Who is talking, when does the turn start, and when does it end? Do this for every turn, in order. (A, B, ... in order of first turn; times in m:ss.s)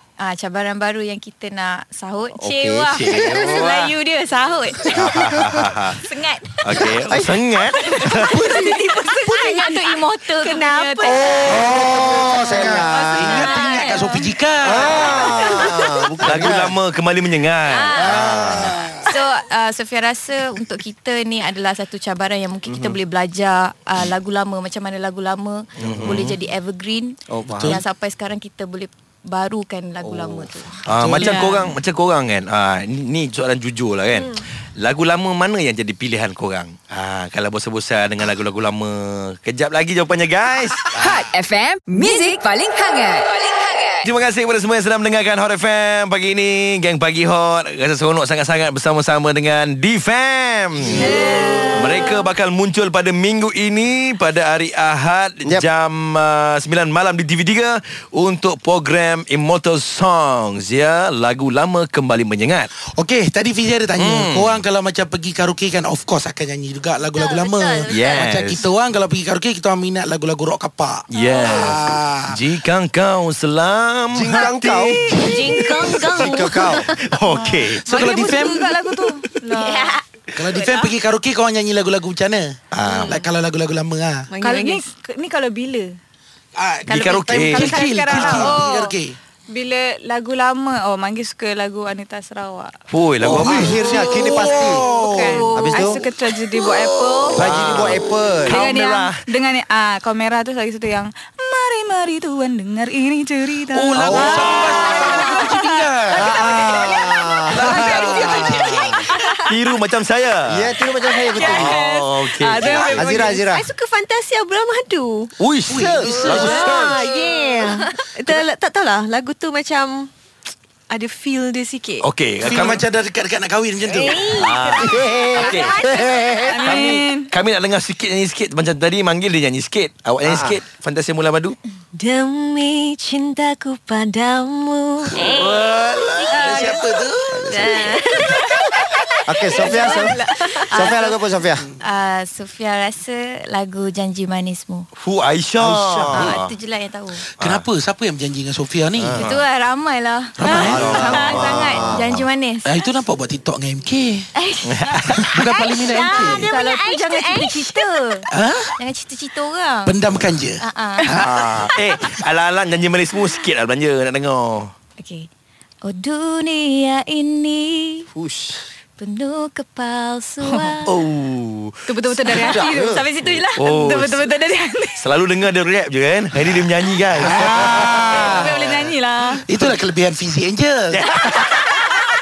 0:00.2-0:05.0 A
0:02.3-0:03.7 B
0:02.9-0:03.9 C
0:04.9-0:06.0 C
0:05.0-0:05.6 B
0:06.1-0:06.9 A
0:06.6-0:08.5 C
0:07.1-0:07.4 B
0:08.0-0:12.1 A
0:08.2-0:11.7 D
0:11.1-0:15.6 E
0:11.7-0:13.4 B
0:12.6-0:14.3 D
0:13.4-0:14.1 A
0:14.6-0:16.8 B
0:16.2-0:18.8 C
0:17.8-0:18.2 A
0:18.0-0:19.0 E
0:18.0-0:18.7 B
0:18.9-0:30.8 A
0:22.7-0:23.0 B
0:25.8-0:26.4 C
0:26.0-0:26.3 B
0:27.3-0:27.8 B
0:27.5-0:27.8 E
0:30.0-0:30.6 B
0:30.9-0:41.0 C
0:30.9-0:31.6 E
0:31.2-0:31.7 D
0:40.9-0:44.0 F
0:44.0-0:51.1 C
0:51.2-0:51.6 A
0:51.3-0:51.6 D
0:51.7-1:02.7 C
1:02.9-1:12.4 E
1:04.0-1:04.6 C
1:07.1-1:08.2 G
1:07.9-1:08.7 C
1:11.1-1:16.2 C
1:11.2-1:11.5 A
1:14.1-1:17.0 B
1:15.2-1:16.9 G
1:16.9-1:18.1 C
1:17.4-1:20.0 D
1:17.9-1:18.7 E
1:19.5-1:20.0 A
1:20.3-1:24.3 E
1:22.7-1:23.2 C
1:22.9-1:23.2 G
1:24.3-1:24.8 G
1:24.4-1:25.9 D
1:26.6-1:29.2 E
1:26.9-1:28.4 C
1:26.9-1:28.9 D
1:29.5-1:32.7 D
1:32.9-1:33.9 C
1:33.2-1:36.0 B
1:33.4-1:35.5 E
1:34.4-1:37.6 D
1:37.2-1:39.2 C
1:37.4-1:38.6 B
1:38.4-1:45.8 D
1:43.7-1:46.8 E
1:43.9-1:44.5 B
1:46.1-1:49.0 B
1:47.5-1:49.0 E
1:47.5-1:47.8 C
1:47.8-1:48.8 G
1:49.5-1:50.8 C
1:50.5-1:51.8 B
1:51.4-1:53.4 D
1:51.5-1:53.3 C
1:52.6-1:53.7 B
1:53.3-1:55.3 G
1:55.4-1:56.6 C
1:55.7-1:57.3 E
1:55.8-1:56.8 B
1:56.0-2:00.1 G
2:00.9-2:02.0 G
2:02.0-2:02.8 C
2:02.4-2:04.3 E
2:03.8-2:06.6 G
2:04.3-2:05.8 C
2:04.8-2:06.9 B
2:06.5-2:07.3 D
2:06.6-2:11.6 C
2:10.2-2:10.6 B
2:11.9-2:15.6 G
2:15.2-2:16.5 C
2:16.2-2:17.7 E
2:16.4-2:16.7 G
2:17.3-2:18.1 B
2:17.5-2:21.0 G
2:19.3-2:20.2 B
2:20.6-2:21.2 A
2:20.7-2:21.7 B
2:21.8-2:24.9 A
2:25.0-2:26.5 C
2:25.6-2:26.4 B
2:26.1-2:27.2 A
2:27.4-2:27.6 C
2:27.4-2:29.2 E
2:29.0-2:29.3 B
2:29.1-2:29.4 C
2:29.2-2:32.8 A
2:30.4-2:31.3 E
2:30.5-2:32.1 B
2:30.6-2:32.3 C
2:32.6-2:34.3 E
2:34.4-2:38.3 A
2:34.6-2:35.4 C
2:35.1-2:36.6 E
2:38.3-2:38.8 E
2:38.8-2:40.0 A
2:39.8-2:41.5 E
2:40.6-2:41.2 A
2:41.2-2:44.7 C
2:45.0-2:45.3 A
2:45.8-2:48.1 A
2:48.1-2:48.6 B
2:49.0-2:50.9 A
2:50.9-2:52.5 C
2:51.9-2:55.0 D
2:52.5-2:52.7 E
2:52.7-2:53.0 B
2:53.2-2:54.2 C
2:55.0-2:58.2 C
2:57.2-2:58.6 E
2:58.0-2:59.4 D
2:59.4-3:01.2 E
3:00.9-3:01.8 C